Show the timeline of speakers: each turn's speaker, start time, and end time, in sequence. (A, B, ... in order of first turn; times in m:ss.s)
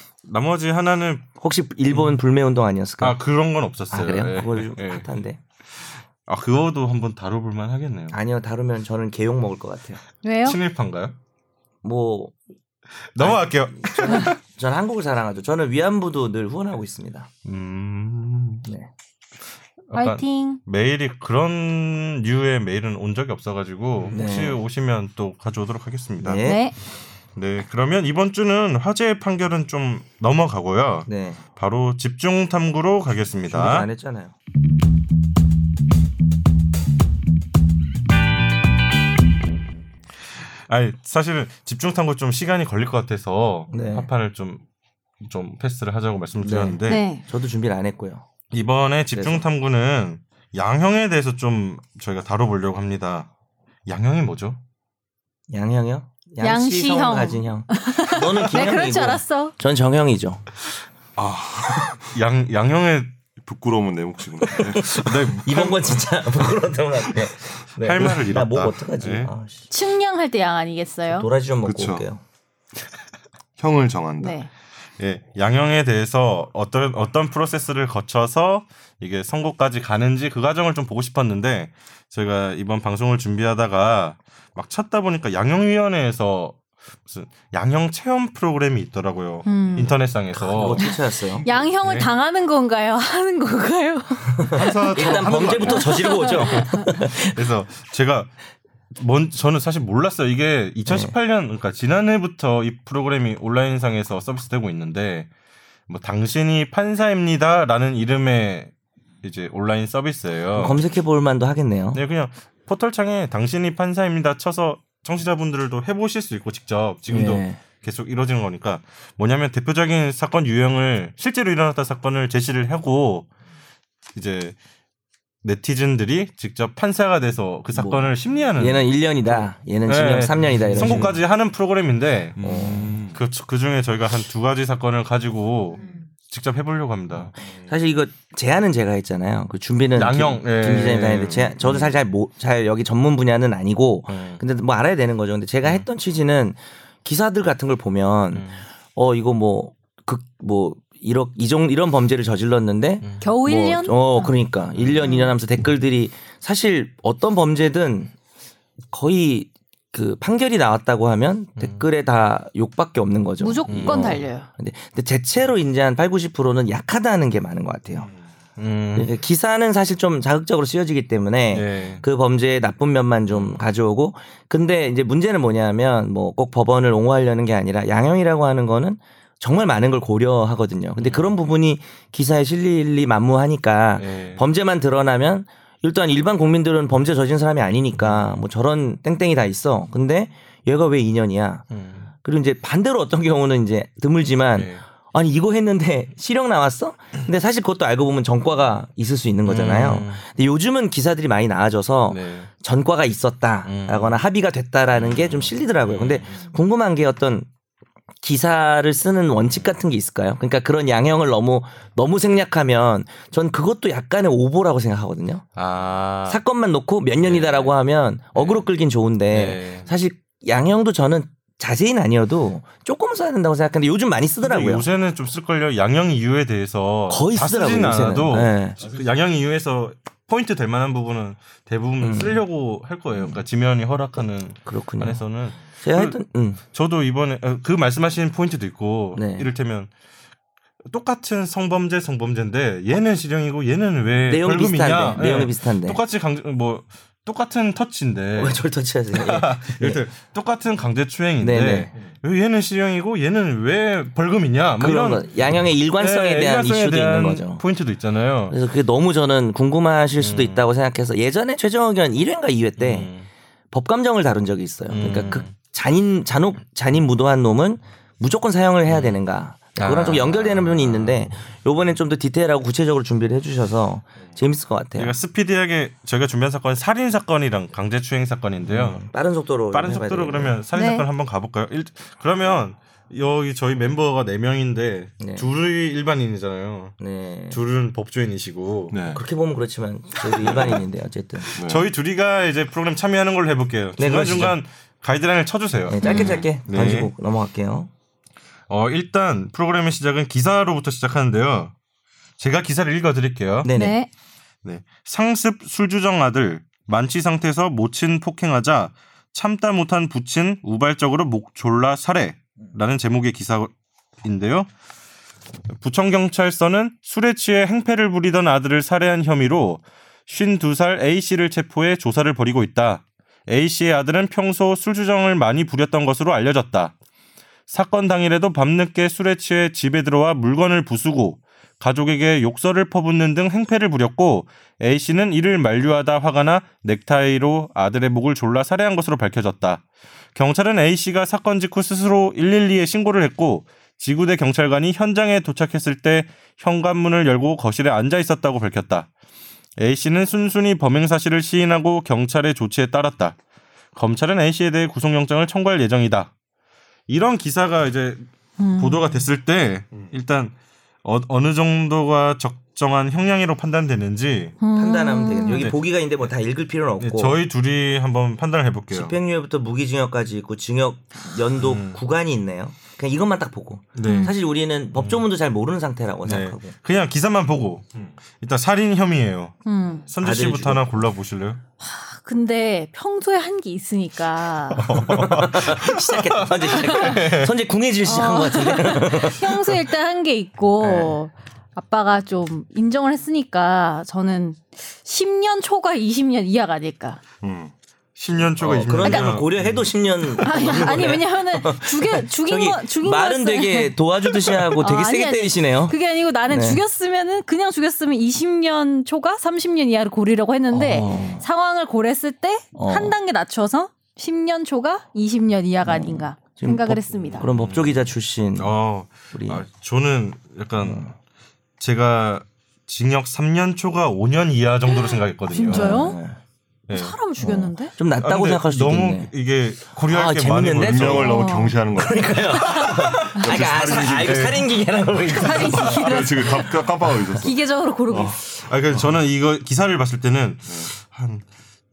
0:00.2-0:01.3 A
0:01.4-0:03.2 B
0:03.0-0:05.1 A
0:03.9-0:05.4 B
0:06.2-0:08.2 A
0:08.1-0:10.0 B
0:10.2-0:10.6 C
0:10.4-0:11.2 A
0:11.8-0:12.4 B
0:13.1-0:14.4 A
0:13.2-0:17.3 B
0:17.4-0:18.6 A
0:18.6-0:18.9 B
0:19.9-0:26.6 A
0:19.9-0:20.6 C
0:24.1-0:24.6 B
0:26.2-0:26.6 B
0:26.4-0:26.8 C
0:27.4-0:33.9 A
0:31.1-0:31.4 B
0:33.5-0:34.3 B
0:40.7-0:44.6 A
0:43.7-0:44.1 B
0:45.2-0:47.0 A
0:46.4-0:48.3 B
0:46.9-0:47.2 C
0:48.5-0:53.3 A
0:49.1-0:49.5 B
0:53.9-0:54.6 A
0:55.5-1:00.4 B
0:56.4-0:59.5 C
1:01.2-1:02.1 D
1:02.1-1:03.1 A
1:03.4-1:05.4 D
1:04.4-1:09.7 B
1:05.0-1:06.0 A
1:07.8-1:09.3 A
1:09.7-1:11.3 C
1:11.1-1:12.2 B
1:11.6-1:12.0 D
1:13.6-1:14.4 D
1:14.2-1:14.5 C
1:15.0-1:30.9 A
1:29.5-1:29.9 C
1:30.3-1:31.5 B
1:31.4-1:32.1 A
1:31.4-1:36.9 C
1:34.4-1:37.4 B
1:34.5-1:36.2 D
1:37.2-1:38.3 A
1:39.0-1:45.3 A
1:40.9-1:41.1 B
1:45.9-1:48.7 A
1:49.2-1:50.8 A
1:50.5-1:52.0 B
1:51.9-2:03.3 A
1:57.1-1:57.6 B
2:04.2-2:04.6 A
2:05.4-2:12.4 A
2:07.7-2:11.2 B
2:10.8-2:11.1 D
2:12.4-2:13.2 D
2:12.4-2:13.0 B
2:13.1-2:17.3 A
2:17.4-2:38.1 B
2:20.0-2:21.9 A
2:24.1-2:24.4 A
2:28.3-2:28.6 A
2:33.2-2:34.3 C
2:34.8-2:35.2 A
2:38.9-2:48.1 B
2:43.4-2:44.5 C
2:43.7-2:44.2 A
2:48.6-2:49.1 A
2:49.0-3:11.7 B
2:51.5-2:52.0 A
2:53.3-2:53.6 A
3:01.0-3:01.4 A
3:04.0-3:04.4 A
3:08.0-3:08.4 A
3:11.7-3:12.1 A
3:12.2-3:27.5 B
3:14.6-3:14.8 A
3:19.5-3:20.2 A
3:22.1-3:22.5 A
3:23.7-3:24.2 A
3:25.0-3:26.5 A
3:28.2-3:35.5 B
3:35.6-3:36.4 A
3:36.3-3:44.9 B
3:37.2-3:37.7 A
3:38.4-3:38.6 A
3:39.3-3:39.9 A
3:44.4-3:56.2 A
3:47.1-3:48.8 B
3:52.0-3:52.4 B
3:53.1-3:53.4 B
3:54.7-3:55.2 B
3:55.8-3:56.6 B
3:56.7-3:59.9 A
3:59.2-3:59.5 B
4:00.9-4:15.3 A
4:04.2-4:06.0 B
4:08.4-4:10.0 B
4:11.4-4:11.9 B
4:14.8-4:17.6 B
4:16.0-4:18.6 A
4:18.5-4:23.1 B
4:20.2-4:20.6 A
4:22.8-4:23.3 A
4:23.7-4:35.2 B
4:24.9-4:25.5 A
4:28.9-4:29.2 A
4:29.8-4:31.3 A
4:35.0-4:39.0 A
4:38.7-4:40.6 B
4:39.7-4:47.0 A
4:40.8-4:41.1 C
4:45.2-4:45.5 B
4:47.0-4:47.6 B
4:47.5-4:49.0 A
4:48.9-4:49.2 D
4:49.1-4:51.6 B
4:50.4-4:50.8 A
4:51.6-4:51.9 D
4:51.6-4:57.1 A
4:54.0-4:54.6 B
4:55.9-4:57.9 B
4:56.0-4:56.4 C
4:58.7-5:01.7 A
5:02.4-5:03.7 A
5:03.6-5:04.0 B
5:03.7-5:04.1 C
5:04.6-5:13.7 A
5:14.2-5:14.7 A
5:15.8-5:27.0 A
5:27.7-5:39.8 A
5:40.4-5:49.1 A
5:49.8-5:53.4 A
5:54.0-5:56.3 A
5:57.1-5:58.2 A
5:58.6-5:59.2 C
5:58.8-6:04.6 A
6:04.6-6:05.7 C
6:04.8-6:07.4 B
6:05.5-6:05.8 A
6:07.0-6:09.2 A
6:08.9-6:16.8 B
6:11.6-6:12.0 A
6:14.0-6:14.4 A
6:14.0-6:14.3 C
6:15.0-6:15.2 A
6:16.2-6:17.9 A
6:18.4-6:21.6 A
6:19.7-6:20.1 C
6:20.2-6:20.9 B
6:21.8-6:24.9 C
6:24.8-6:27.6 A
6:24.8-6:29.8 B
6:26.9-6:27.2 C
6:28.1-6:37.2 C
6:30.8-6:31.1 B
6:37.4-6:37.7 D
6:38.2-6:39.6 A
6:38.6-6:46.8 B
6:39.0-6:39.4 C
6:39.6-6:39.8 D
6:40.4-6:57.5 C
6:50.7-6:51.5 B
6:52.7-6:53.2 B
6:55.8-6:58.8 B
6:57.5-7:01.1 A
6:59.3-6:59.6 B
7:00.8-7:01.1 B
7:01.8-7:06.1 A
7:04.9-7:06.2 C
7:05.6-7:06.4 B
7:06.9-7:07.2 A
7:06.9-7:07.9 C
7:07.4-7:09.3 B
7:08.2-7:11.3 A
7:10.0-7:11.4 B
7:10.8-7:14.6 D
7:11.2-7:11.8 C
7:12.0-7:16.2 B
7:14.2-7:14.7 A
7:15.4-7:18.3 C
7:15.6-7:17.6 D
7:18.1-7:18.4 D
7:18.1-7:21.4 A
7:20.7-7:20.9 D